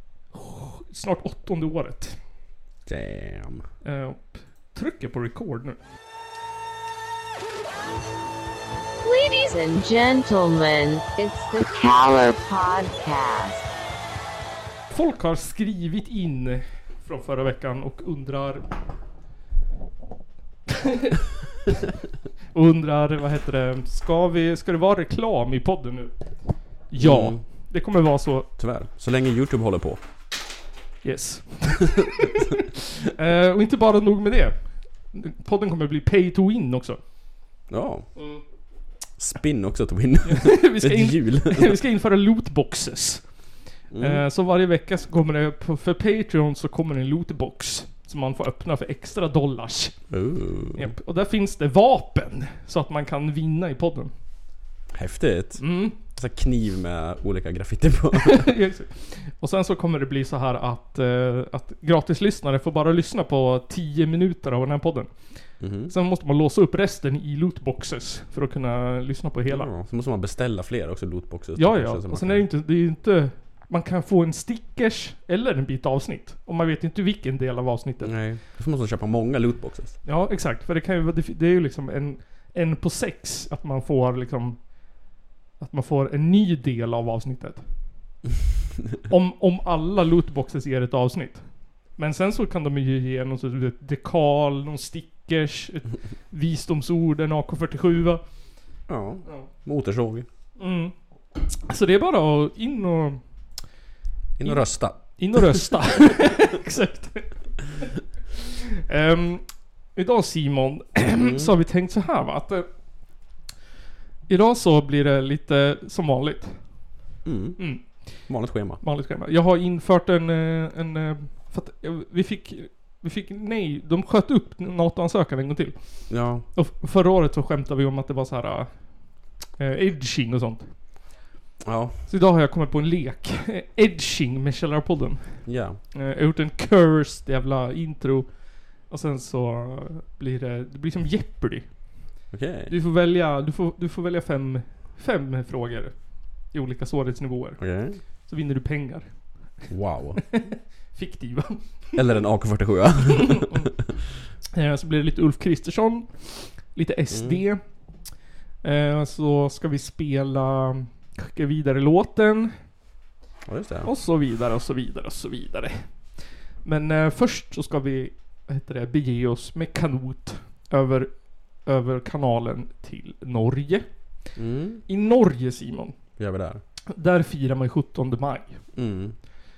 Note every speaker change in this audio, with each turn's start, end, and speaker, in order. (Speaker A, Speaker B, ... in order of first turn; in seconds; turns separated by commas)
Speaker A: 0.3-2.3, Speaker B: 2.9-3.7, Speaker A: 3.8-5.8, Speaker C: 9.0-13.6, Speaker A: 14.9-18.7, Speaker A: 22.5-28.5, Speaker B: 26.9-27.4, Speaker B: 28.6-30.0, Speaker A: 31.0-32.6, Speaker A: 33.1-37.0, Speaker B: 37.7-38.2, Speaker A: 38.1-38.4, Speaker B: 39.1-41.8, Speaker A: 40.2-54.2, Speaker B: 43.9-44.2, Speaker B: 50.1-50.9, Speaker B: 54.9-58.5, Speaker A: 55.6-56.0, Speaker A: 58.2-69.7, Speaker B: 65.6-65.9, Speaker B: 69.5-72.5, Speaker A: 71.5-78.2, Speaker B: 78.0-80.0, Speaker A: 80.0-88.2, Speaker A: 89.1-99.8, Speaker B: 98.9-100.3, Speaker A: 100.5-103.7, Speaker B: 104.3-105.6, Speaker A: 104.4-107.7, Speaker A: 108.9-113.4, Speaker B: 111.1-111.5, Speaker A: 114.3-131.2, Speaker B: 117.2-118.8, Speaker B: 126.1-126.5, Speaker B: 131.6-132.0, Speaker A: 132.1-150.0, Speaker B: 135.4-135.8, Speaker B: 142.3-142.7, Speaker B: 147.6-148.0, Speaker B: 149.7-150.2, Speaker A: 150.9-152.0, Speaker B: 151.9-153.4, Speaker A: 153.4-153.7, Speaker A: 154.6-162.9, Speaker B: 157.1-157.5, Speaker B: 163.4-163.9, Speaker A: 163.8-178.9, Speaker B: 174.3-174.8, Speaker B: 176.2-176.6, Speaker B: 178.7-179.2